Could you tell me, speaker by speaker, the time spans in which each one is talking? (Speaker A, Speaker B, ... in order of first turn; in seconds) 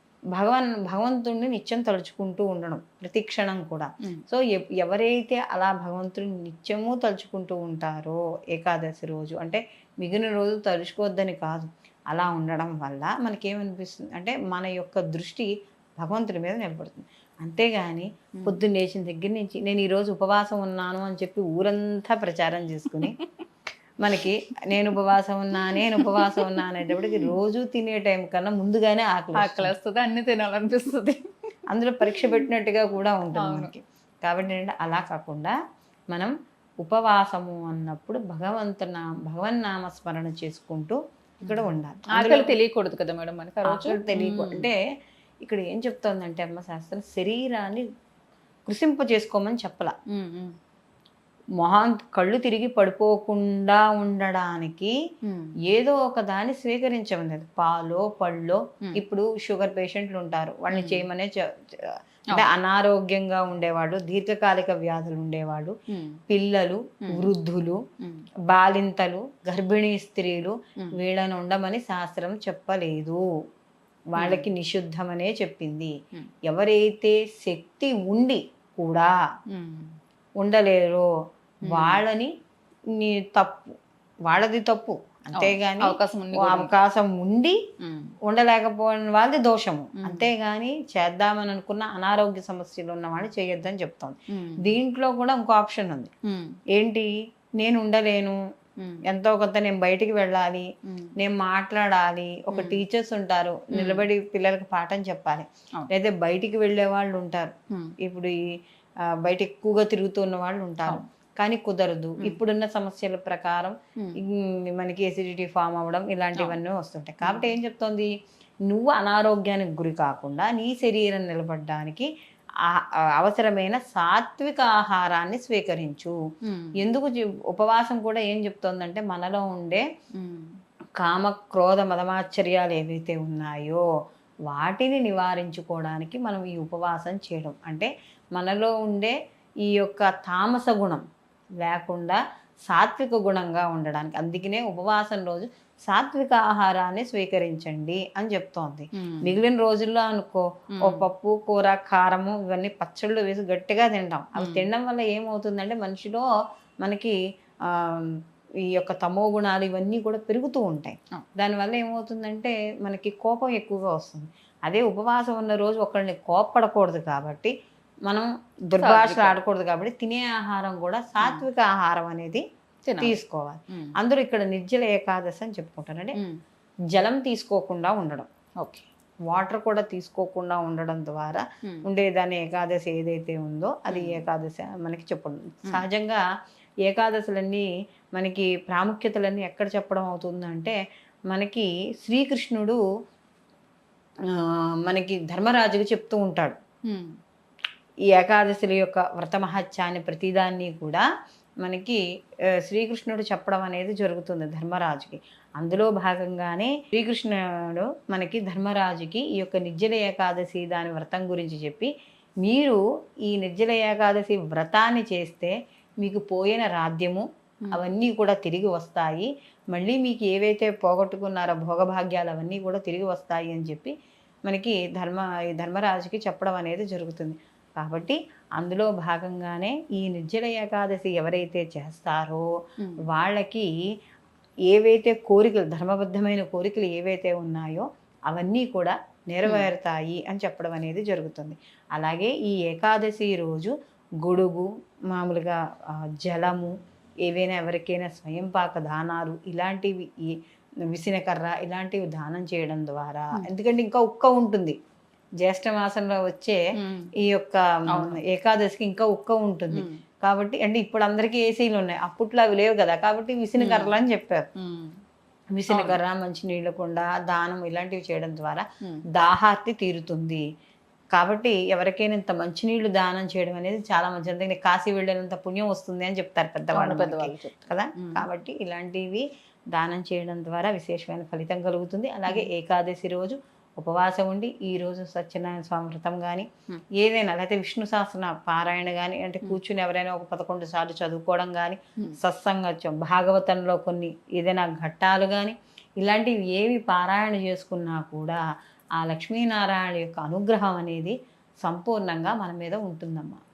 Speaker A: 0.3-23.2, 24.0-29.7, 31.7-35.5, 36.1-42.5, 43.6-44.8, 45.4-47.9, 48.7-49.9, 51.6-54.9, 55.6-65.7, 66.3-67.8, 68.5-73.2, 74.1-75.9, 76.5-79.1, 80.4-81.1, 81.7-82.3, 82.9-83.7, 84.3-87.6, 88.3-96.1, 96.7-98.4, 99.0-108.4, 109.2-118.1, 118.7-122.1, 122.7-126.2, 126.8-129.8, 131.0-133.8, 134.5-141.0, 141.6-156.3, 156.8-167.5, 168.1-172.4, 173.0-176.2, 176.9-178.3, 179.3-186.2, 186.8-190.8, 191.3-192.8, 194.3-196.6, 198.1-201.0, 201.6-202.0, 202.6-211.9, 212.4-223.9, 224.4-232.4, 233.1-233.7, 234.7-246.7, 247.2-250.4, 250.9-254.8, 255.4-256.6, 257.2-264.4, 265.6-268.6, 269.1-270.4, 271.1-298.4, 299.0-303.4
Speaker B: 22.9-23.2, 25.6-26.5, 29.3-31.2, 32.0-32.4, 33.3-33.7, 41.5-44.7, 50.1-50.5, 55.2-55.5, 60.7-61.0, 65.9-66.2, 68.0-68.2, 74.2-74.5, 79.5-79.9, 81.7-82.0, 85.3-86.7, 87.8-88.2, 90.0-90.3, 94.3-94.6, 96.2-96.6, 100.8-101.1, 102.5-102.8, 103.7-104.0, 117.2-117.5, 126.4-126.8, 130.2-130.5, 148.9-149.3, 150.7-151.1, 154.4-154.7, 168.8-169.4, 171.2-171.4, 172.9-173.2, 173.7-173.9, 178.6-178.9, 183.9-184.2, 196.9-197.1, 256.8-257.1, 257.9-258.2, 259.7-260.0, 263.6-263.9, 264.6-265.0, 265.7-266.0, 276.7-278.2